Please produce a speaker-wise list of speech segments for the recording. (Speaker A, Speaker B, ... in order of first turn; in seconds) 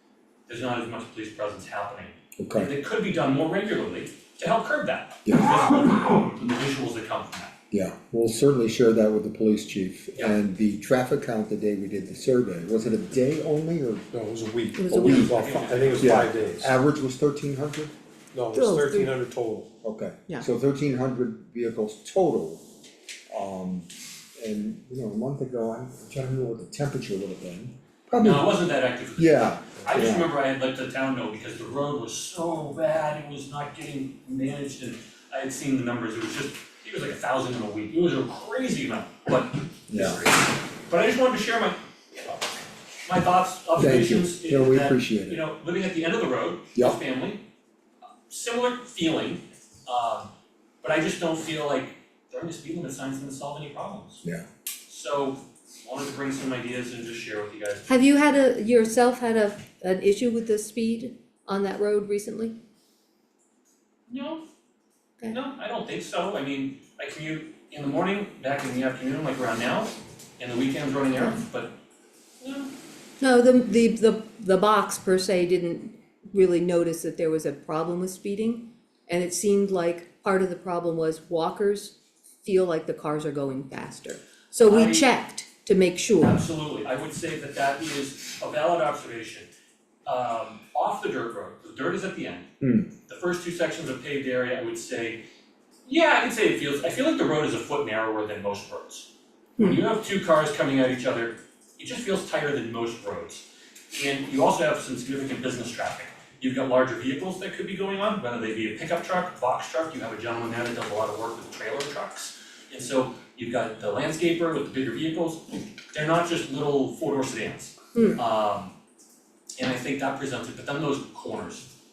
Speaker A: 0.5-7.5, 14.9-16.6, 28.2-41.8, 43.0-47.4, 48.3-50.3, 50.8-54.2, 54.9-57.9, 64.1-64.4, 65.3-71.7, 72.4-72.7, 84.6-85.1, 86.2-89.5, 90.0-92.5, 93.1-95.2, 95.8-99.1, 99.6-118.7, 119.6-121.7
Speaker B: 2.4-2.7, 5.2-5.5, 7.7-14.1, 14.9-15.4, 16.0-17.9, 19.8-22.6, 23.3-28.5, 29.2-30.3, 39.9-40.3, 43.8-45.4, 92.6-92.9
Speaker C: 14.1-16.7, 18.3-19.7
Speaker D: 14.8-15.3, 18.5-19.1, 57.9-62.5, 73.2-86.4